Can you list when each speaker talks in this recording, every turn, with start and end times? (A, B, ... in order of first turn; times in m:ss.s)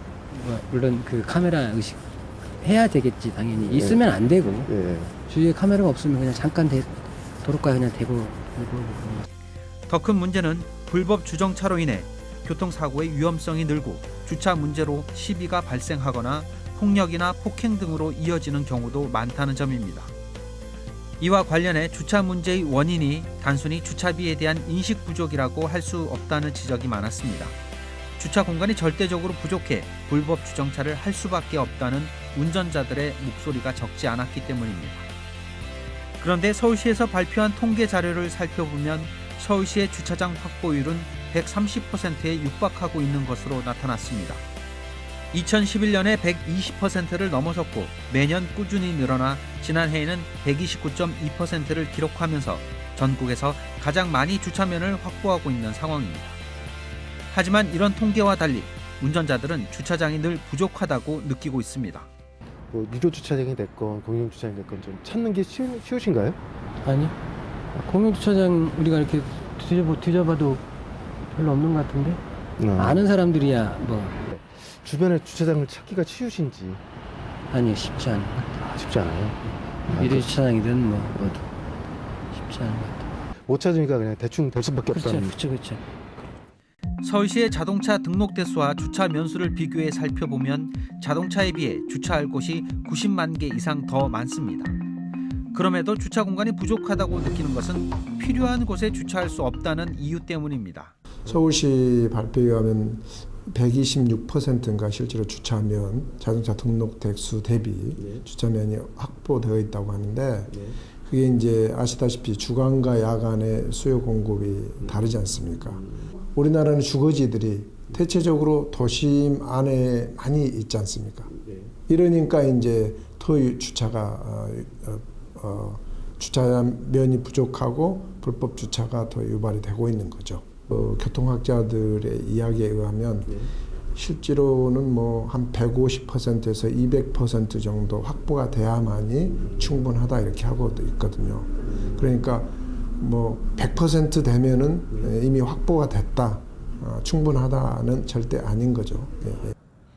0:00.3-0:04.7 A
0:03.6-0:05.1 B
0:05.2-0:09.3 A
0:09.9-0:20.1 C
0:21.2-0:27.6 C
0:28.2-0:35.1 C
0:36.2-0:44.4 C
0:45.3-0:56.4 C
0:57.3-1:02.1 C
1:02.7-1:06.4 B
1:06.8-1:07.1 A
1:07.7-1:10.6 A
1:11.3-1:12.2 A
1:12.6-1:13.0 B
1:12.8-1:14.2 A
1:14.3-1:16.8 B
1:17.5-1:18.6 A
1:18.6-1:20.4 B
1:19.9-1:21.5 A
1:22.3-1:23.1 A
1:23.5-1:25.3 B
1:24.9-1:25.8 A
1:27.0-1:34.8 C
1:35.5-1:40.9 C
1:41.2-2:01.3 D
2:01.9-2:29.5 D